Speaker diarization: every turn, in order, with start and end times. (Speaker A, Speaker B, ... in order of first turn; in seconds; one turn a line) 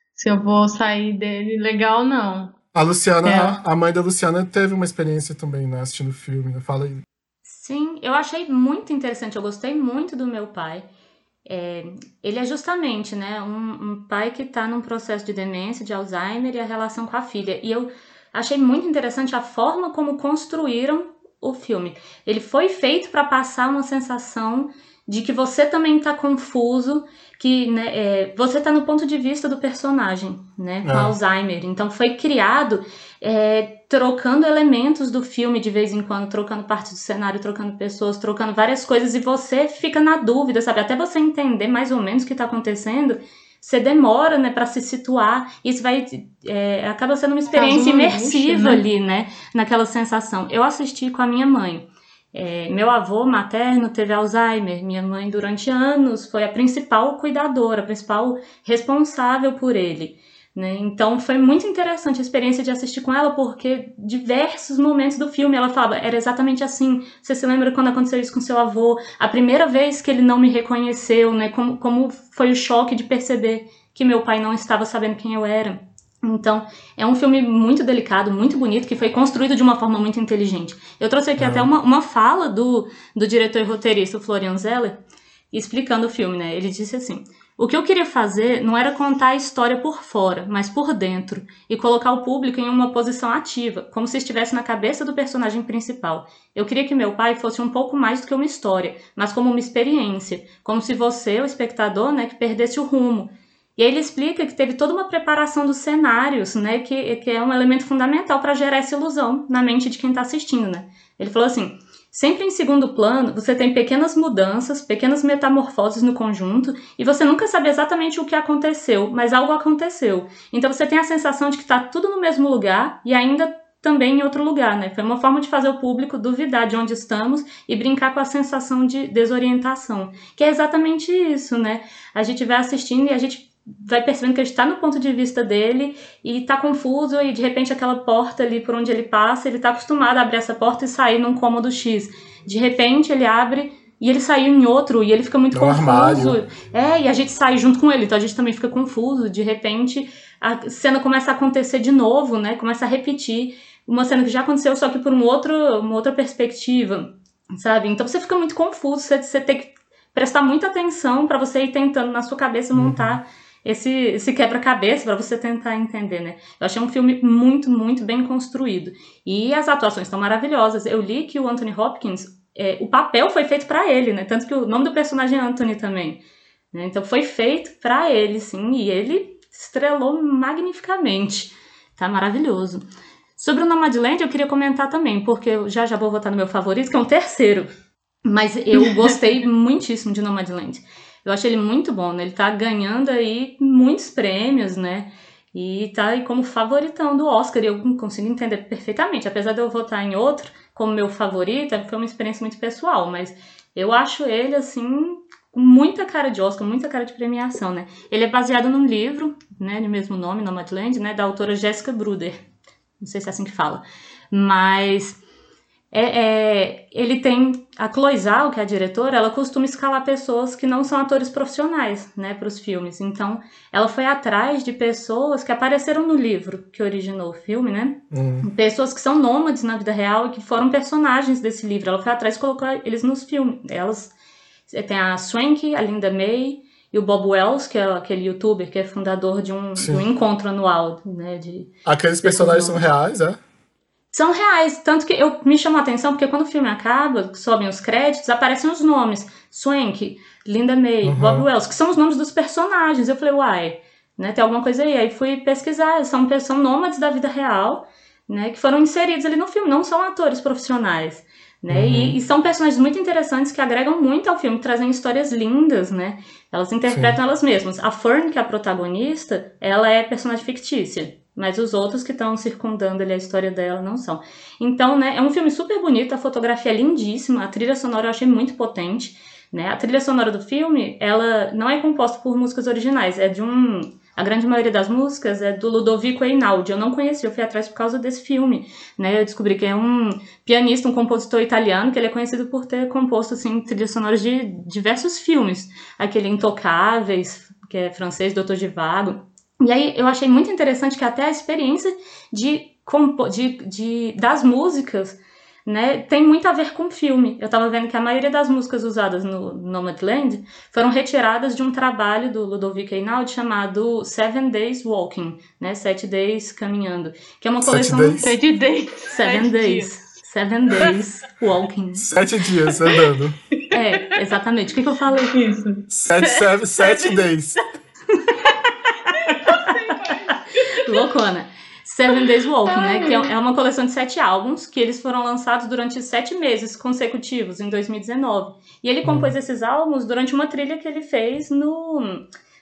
Speaker A: 0.1-2.5
Speaker B: 2.7-7.0
Speaker A: 3.2-3.6
Speaker C: 7.5-10.9
Speaker C: 11.5-85.0
Speaker B: 30.8-31.1
Speaker A: 47.5-48.9
Speaker B: 81.4-81.7
Speaker C: 85.5-176.2
Speaker B: 145.5-146.4
Speaker B: 162.7-163.2
Speaker C: 176.7-182.8
Speaker C: 183.4-187.7
Speaker C: 188.2-212.4
Speaker C: 213.0-215.2
Speaker C: 215.9-234.1
Speaker B: 228.1-228.5
Speaker C: 234.7-241.7
Speaker B: 239.8-240.1
Speaker B: 241.8-243.4
Speaker C: 242.2-242.8
Speaker C: 244.1-318.4
Speaker B: 251.0-251.5
Speaker B: 261.7-262.2
Speaker B: 266.9-267.2
Speaker B: 317.6-318.3
Speaker A: 318.2-320.0
Speaker C: 319.1-322.1
Speaker B: 322.0-323.4
Speaker C: 323.7-325.4
Speaker A: 323.7-324.1
Speaker A: 325.3-327.3
Speaker B: 325.9-327.6
Speaker C: 328.2-328.5
Speaker A: 329.1-331.1
Speaker C: 329.2-330.2
Speaker C: 330.7-342.2
Speaker A: 332.7-333.3
Speaker B: 339.0-339.3